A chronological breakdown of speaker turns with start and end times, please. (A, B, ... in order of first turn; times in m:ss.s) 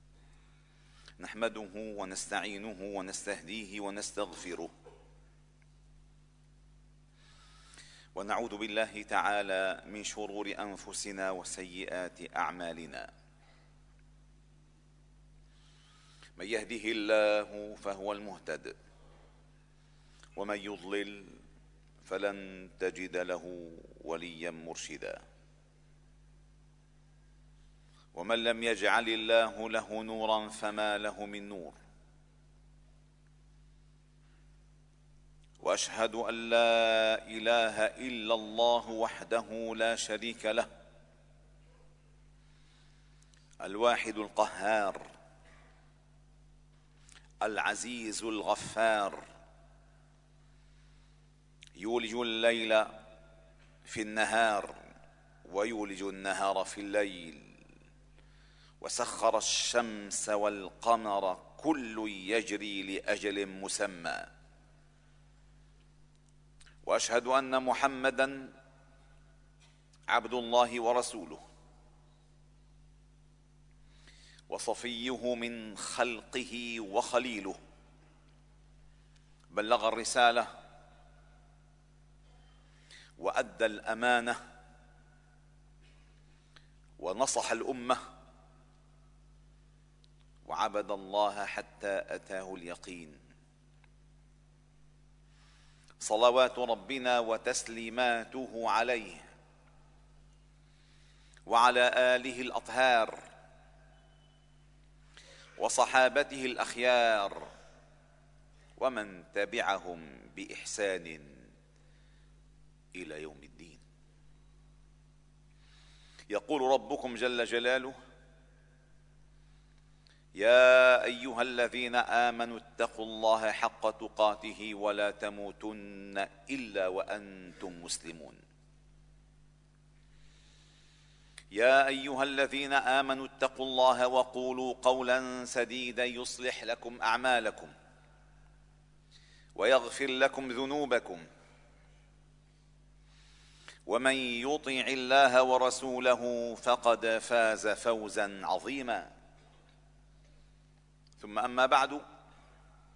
0:01.2-0:04.7 A
0:08.2-0:13.1 A
0:16.4-0:18.7 A
0:20.4-0:21.4 A
0:22.0-0:25.2 A
0:28.1-0:31.8 A
0:35.6-0:40.7 A
0:43.6-0:45.1 A
0:47.4-0:49.2 A
0:51.8-0:52.9 A
0:53.9-0:54.8 A
0:55.4-0:57.6 A
0:58.8-1:04.3 A
1:06.8-1:08.5 A
1:10.1-1:11.4 A
1:14.5-1:17.6 A
1:19.5-1:20.5 A
1:23.2-1:24.4 A
1:27.0-1:28.0 A
1:30.4-1:33.2 A
1:36.0-1:39.3 A
1:41.5-1:43.2 A
1:45.6-1:47.4 A
1:48.8-1:51.4 A
1:52.9-1:53.8 A
1:56.3-1:58.0 A
2:00.4-2:08.4 A
2:11.5-2:17.7 A
2:19.6-2:21.3 A
2:23.9-2:29.1 A
2:31.2-2:32.0 A